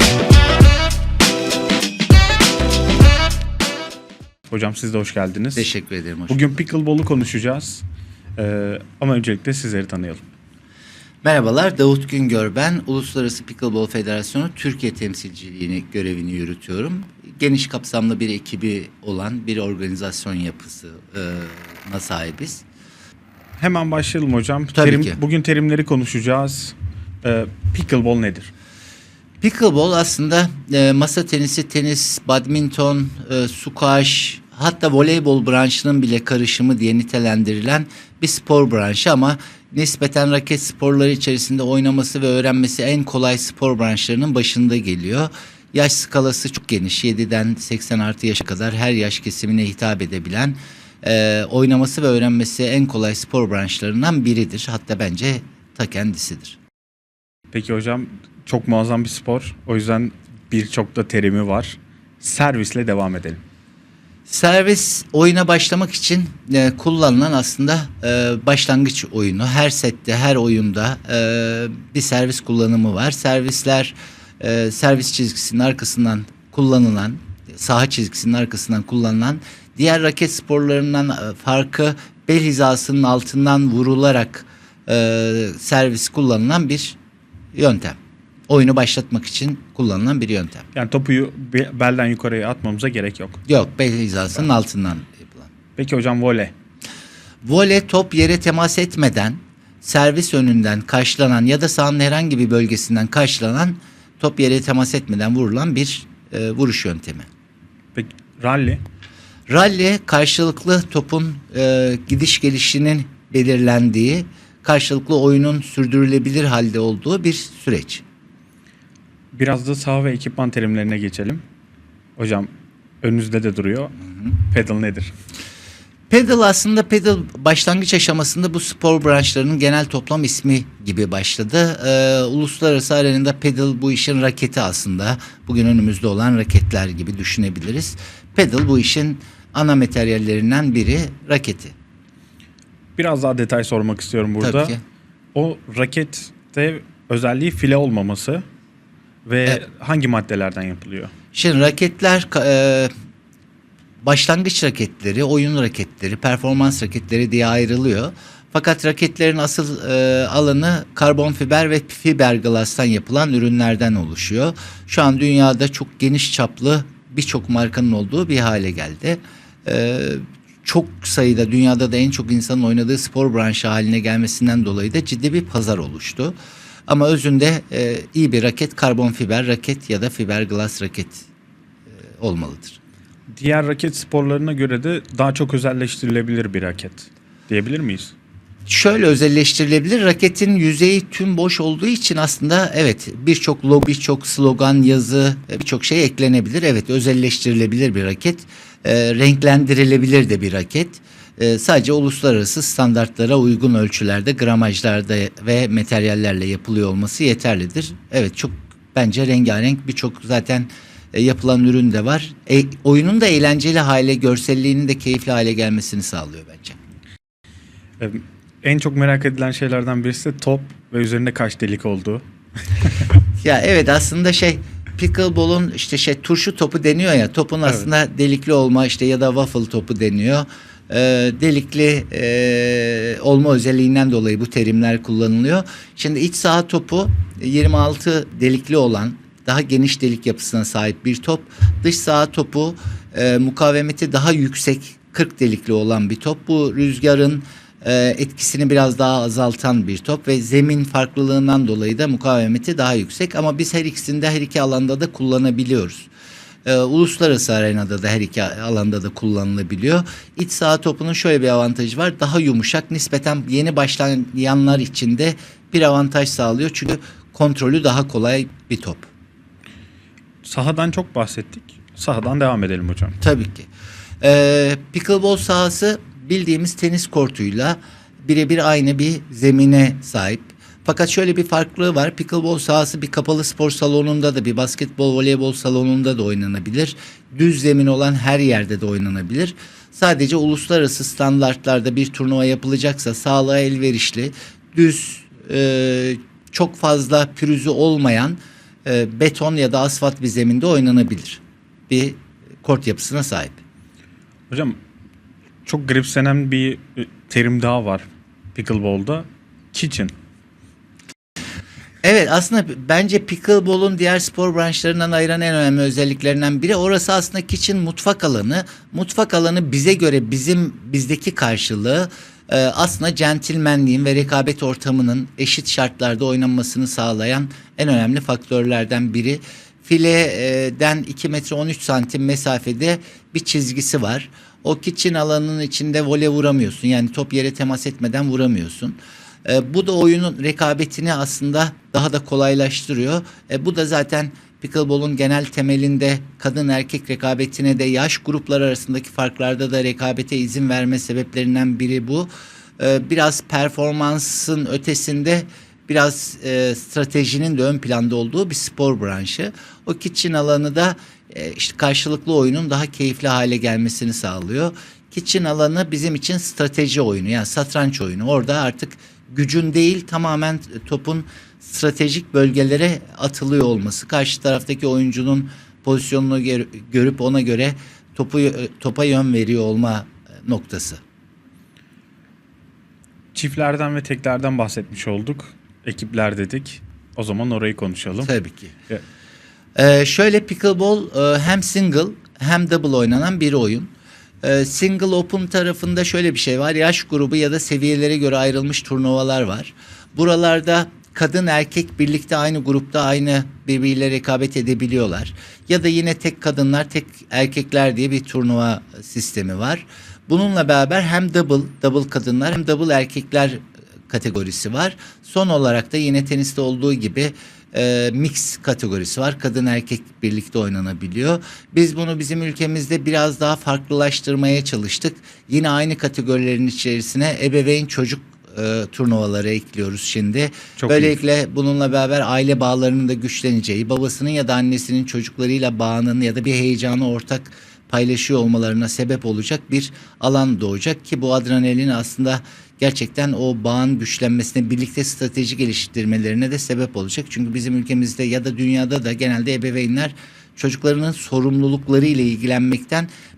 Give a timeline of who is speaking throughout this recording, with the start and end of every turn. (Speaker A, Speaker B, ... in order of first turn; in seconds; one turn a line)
Speaker A: 4.5-5.7
Speaker B: 5.5-6.6
Speaker A: 6.3-7.8
Speaker A: 8.4-10.3
Speaker B: 11.2-22.6
Speaker A: 23.6-28.5
Speaker B: 24.7-25.2
Speaker B: 29.4-56.6
Speaker A: 57.5-63.4
Speaker B: 64.3-87.0
Speaker B: 87.5-88.0
Speaker B: 88.5-90.7
Speaker A: 90.7-93.4
Speaker B: 93.5-95.5
Speaker A: 95.8-96.5
Speaker B: 97.4-107.3
Speaker A: 107.9-108.8
Speaker B: 109.5-118.0
Speaker A: 119.3-121.4
Speaker A: 122.2-122.5
Speaker A: 123.0-125.1
Speaker B: 126.1-141.7
Speaker A: 143.0-144.8
Speaker B: 144.4-144.8
Speaker A: 145.3-148.4
Speaker A: 149.2-151.1
Speaker B: 151.3-152.9
Speaker B: 154.0-176.3
Speaker B: 176.9-181.3
Speaker B: 181.9-182.8
Speaker A: 183.3-188.1
Speaker B: 188.7-216.8
Speaker A: 218.0-222.2
Speaker B: 223.4-256.1
Speaker B: 256.6-269.1
Speaker A: 270.4-273.2
Speaker B: 273.2-273.7
Speaker B: 274.2-303.6
Speaker A: 304.5-304.8
Speaker A: 305.6-310.1
Speaker B: 312.0-381.0
Speaker A: 383.3-388.3
Speaker B: 388.2-388.7
Speaker B: 389.8-393.9
Speaker B: 394.4-453.1
Speaker A: 430.8-431.1